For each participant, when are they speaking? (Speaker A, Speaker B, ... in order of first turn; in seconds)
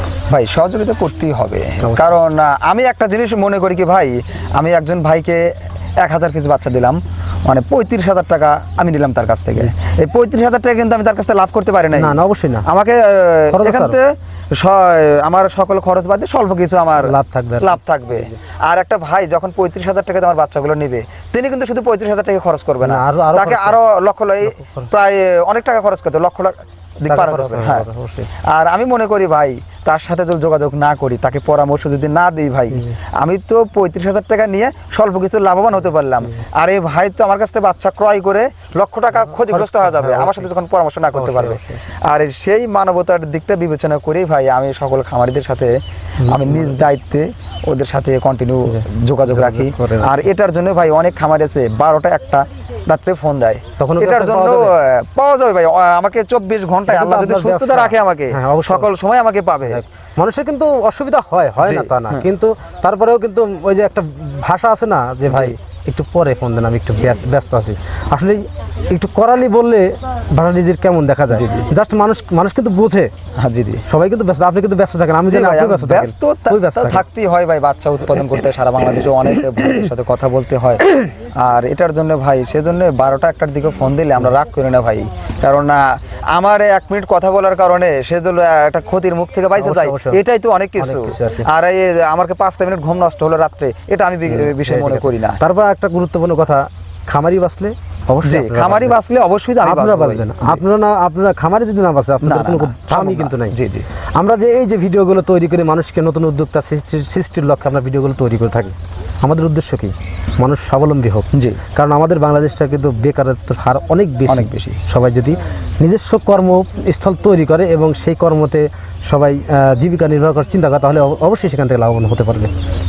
Speaker A: 0.3-27.9, 28.5-45.7, 46.3-59.8, 61.6-62.2, 65.3-65.5, 71.3-71.7, 73.4-73.8, 75.2-95.4, 98.2-100.6, 102.2-103.8, 111.3-111.6, 114.3-114.8
Speaker B: 1.8-2.2, 11.9-12.7, 13.5-14.0, 16.9-18.3, 22.8-23.8, 24.4-24.9, 27.1-28.3, 39.3-40.5, 41.1-41.9, 46.2-46.8, 48.6-50.1, 53.8-54.7, 56.9-58.9, 59.6-73.1, 73.8-77.0, 89.5-90.2, 90.8-91.5, 94.2-99.0, 99.6-103.6, 104.1-122.5